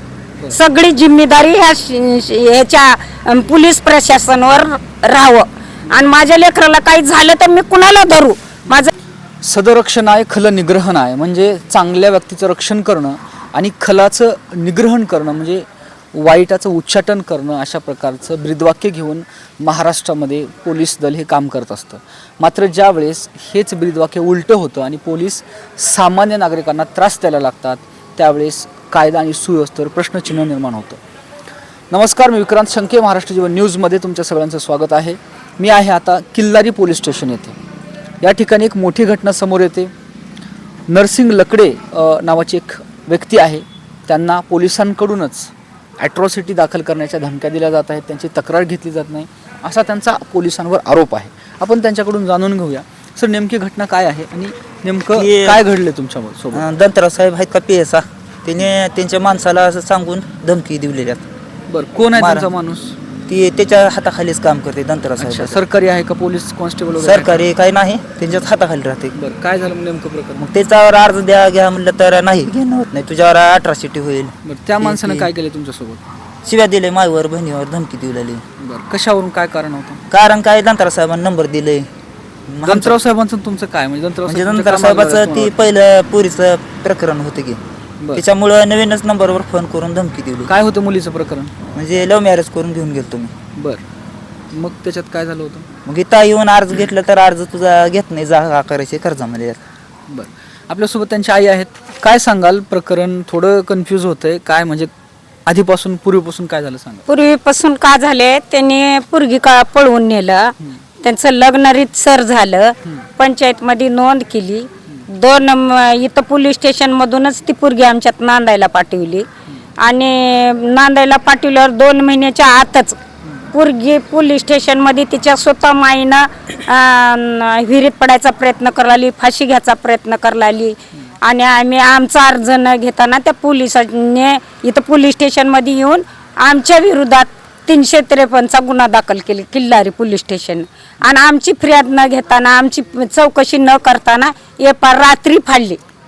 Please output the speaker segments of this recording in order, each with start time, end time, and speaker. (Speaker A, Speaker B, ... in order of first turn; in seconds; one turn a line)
Speaker A: 0.5-8.9
Speaker B: 9.4-31.0
Speaker B: 31.9-37.6
Speaker B: 38.2-39.9
Speaker B: 40.9-56.6
Speaker C: 55.1-55.6
Speaker C: 56.5-61.2
Speaker B: 61.7-63.0
Speaker C: 62.1-62.5
Speaker C: 63.3-65.6
Speaker B: 65.2-67.5
Speaker C: 67.0-69.1
Speaker B: 69.2-70.5
Speaker C: 70.4-75.3
Speaker B: 74.4-76.0
Speaker C: 76.5-78.4
Speaker B: 78.6-80.0
Speaker C: 80.1-81.8
Speaker C: 82.5-83.0
Speaker B: 82.7-85.6
Speaker C: 84.3-87.6
Speaker C: 88.1-90.5
Speaker B: 90.5-91.5
Speaker C: 91.7-93.3
Speaker B: 93.6-93.8
Speaker B: 94.5-95.7
Speaker C: 95.9-99.6
Speaker B: 100.1-104.9
Speaker B: 105.5-107.0
Speaker A: 107.1-119.3
Speaker A: 119.8-123.0
Speaker A: 123.5-145.8